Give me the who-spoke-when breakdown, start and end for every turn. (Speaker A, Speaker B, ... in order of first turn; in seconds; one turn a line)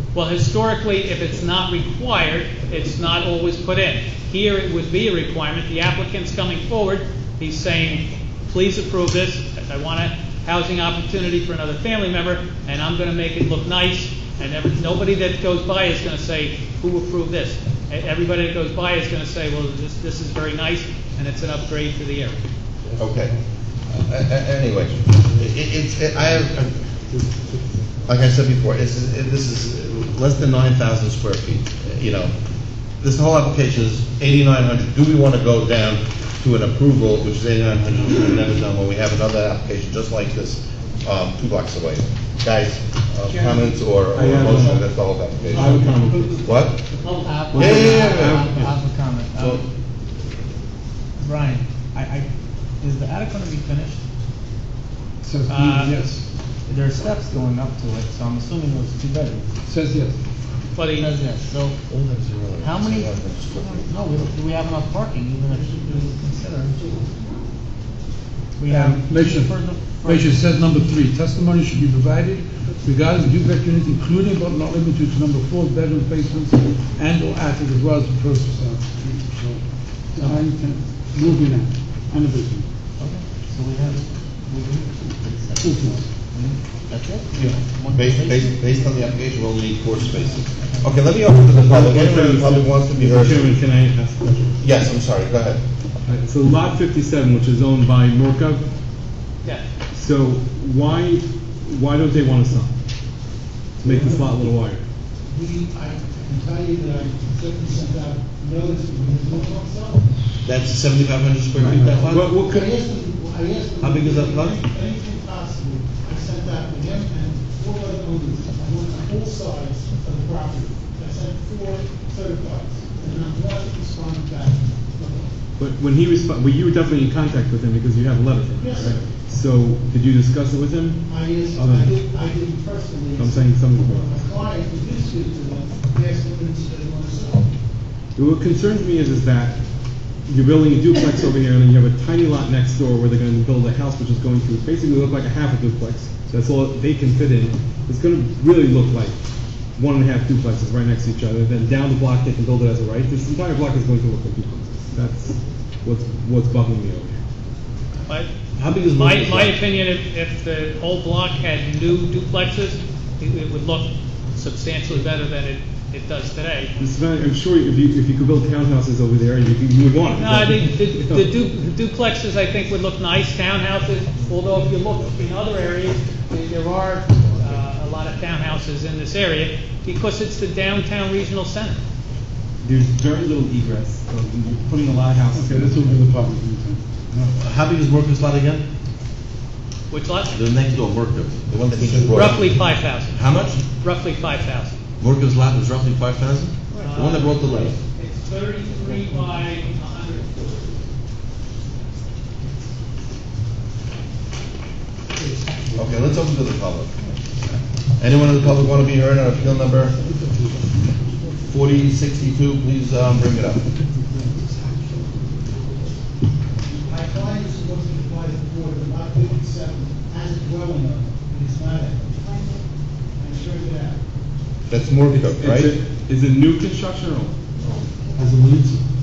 Speaker A: 0.1-22.4
Speaker B: 22.9-23.4
Speaker C: 23.0-23.4
Speaker C: 23.9-26.7
Speaker C: 28.1-32.3
Speaker C: 33.0-46.8
Speaker D: 44.1-44.9
Speaker D: 45.6-46.6
Speaker E: 45.8-46.3
Speaker E: 46.9-49.6
Speaker D: 47.5-48.7
Speaker C: 47.5-48.5
Speaker C: 49.4-49.6
Speaker E: 51.2-52.3
Speaker E: 52.8-54.0
Speaker B: 55.2-56.2
Speaker A: 55.5-56.0
Speaker E: 56.7-59.5
Speaker B: 59.7-60.2
Speaker A: 60.8-61.1
Speaker E: 61.0-61.8
Speaker C: 61.9-64.3
Speaker E: 62.6-66.8
Speaker F: 65.5-67.4
Speaker E: 68.6-70.5
Speaker B: 68.7-82.7
Speaker E: 80.2-80.5
Speaker E: 83.0-88.5
Speaker B: 85.6-86.0
Speaker C: 87.3-93.5
Speaker E: 90.2-90.9
Speaker D: 91.7-94.6
Speaker C: 94.6-95.6
Speaker D: 96.1-98.7
Speaker D: 99.9-102.7
Speaker D: 103.8-104.8
Speaker F: 103.8-104.4
Speaker F: 105.3-110.1
Speaker C: 110.4-112.3
Speaker D: 111.6-112.7
Speaker F: 111.7-125.3
Speaker C: 113.8-114.6
Speaker D: 125.6-131.1
Speaker F: 128.6-129.1
Speaker F: 131.1-137.5
Speaker D: 131.6-131.9
Speaker D: 133.2-134.1
Speaker D: 138.2-139.6
Speaker D: 140.3-149.2
Speaker D: 149.8-157.2
Speaker C: 158.6-159.6
Speaker A: 158.9-166.7
Speaker D: 166.8-171.3
Speaker A: 170.2-181.8
Speaker B: 174.9-175.3
Speaker B: 177.1-177.6
Speaker D: 182.6-186.0
Speaker B: 185.3-187.4
Speaker C: 187.4-188.7
Speaker A: 189.9-190.4
Speaker C: 190.3-193.6
Speaker A: 192.1-193.2
Speaker A: 193.8-194.8
Speaker C: 195.0-197.8
Speaker A: 196.8-200.8
Speaker C: 205.8-206.9
Speaker C: 208.0-210.0
Speaker B: 210.0-210.5
Speaker C: 211.5-213.6
Speaker B: 214.2-215.1
Speaker F: 216.8-222.6
Speaker F: 223.2-224.0
Speaker C: 224.7-225.8
Speaker D: 225.1-227.4
Speaker D: 228.2-228.8